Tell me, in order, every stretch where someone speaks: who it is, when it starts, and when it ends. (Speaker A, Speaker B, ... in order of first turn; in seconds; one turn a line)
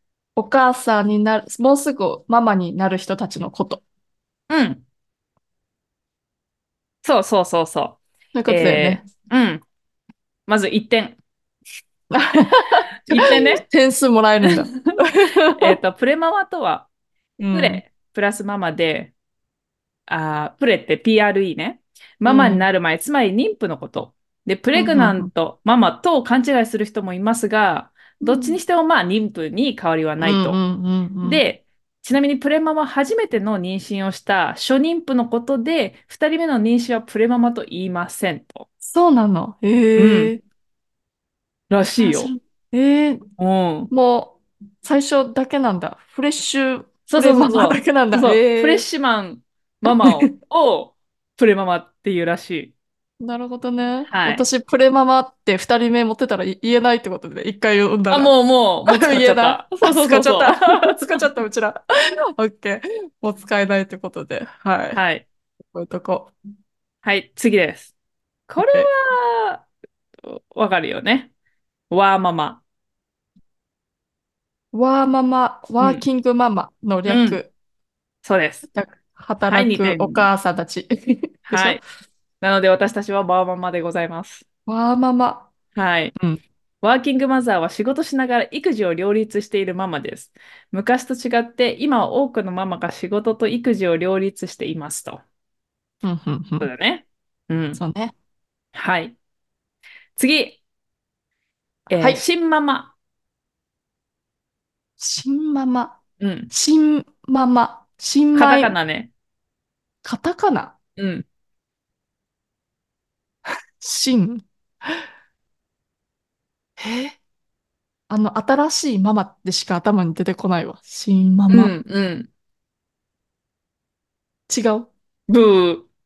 Speaker A: 0.3-3.8
Speaker B: 4.5-4.8
Speaker B: 7.0-9.6
Speaker A: 8.3-9.1
Speaker B: 10.5-11.2
Speaker A: 12.1-15.8
Speaker B: 13.1-13.6
Speaker B: 15.6-16.9
Speaker A: 17.4-17.8
Speaker B: 17.5-19.1
Speaker B: 20.1-30.6
Speaker A: 22.2-22.7
Speaker A: 24.7-25.3
Speaker A: 28.2-28.6
Speaker A: 30.2-31.4
Speaker B: 31.2-38.6
Speaker A: 38.8-40.4
Speaker B: 40.0-40.3
Speaker B: 41.7-42.3
Speaker A: 42.0-43.2
Speaker B: 43.4-43.9
Speaker A: 43.9-48.9
Speaker B: 47.1-52.7
Speaker A: 49.9-50.3
Speaker A: 53.2-58.3
Speaker B: 54.1-54.5
Speaker B: 58.1-61.0
Speaker A: 58.9-65.0
Speaker B: 64.9-65.2
Speaker A: 65.7-66.3
Speaker B: 67.0-67.9
Speaker B: 68.5-69.7
Speaker A: 68.6-68.9
Speaker B: 70.2-71.3
Speaker B: 71.9-72.6
Speaker A: 74.7-77.5
Speaker B: 75.8-76.0
Speaker B: 77.0-77.4
Speaker B: 78.2-78.6
Speaker A: 78.7-81.8
Speaker B: 79.5-80.3
Speaker B: 81.5-81.8
Speaker B: 82.4-84.4
Speaker A: 84.7-85.5
Speaker B: 85.7-86.1
Speaker A: 86.2-86.4
Speaker B: 86.8-95.2
Speaker A: 96.0-96.7
Speaker B: 96.6-97.8
Speaker A: 97.8-98.1
Speaker B: 98.7-99.1
Speaker B: 100.2-100.6
Speaker A: 101.9-102.2
Speaker B: 101.9-102.9
Speaker A: 105.0-106.0
Speaker B: 106.2-106.5
Speaker A: 106.5-108.8
Speaker B: 108.3-109.1
Speaker A: 110.0-110.7
Speaker B: 111.0-111.2
Speaker A: 113.8-115.0
Speaker A: 116.8-117.2
Speaker A: 118.1-121.7
Speaker B: 121.5-122.3
Speaker A: 124.5-124.9
Speaker B: 125.3-125.9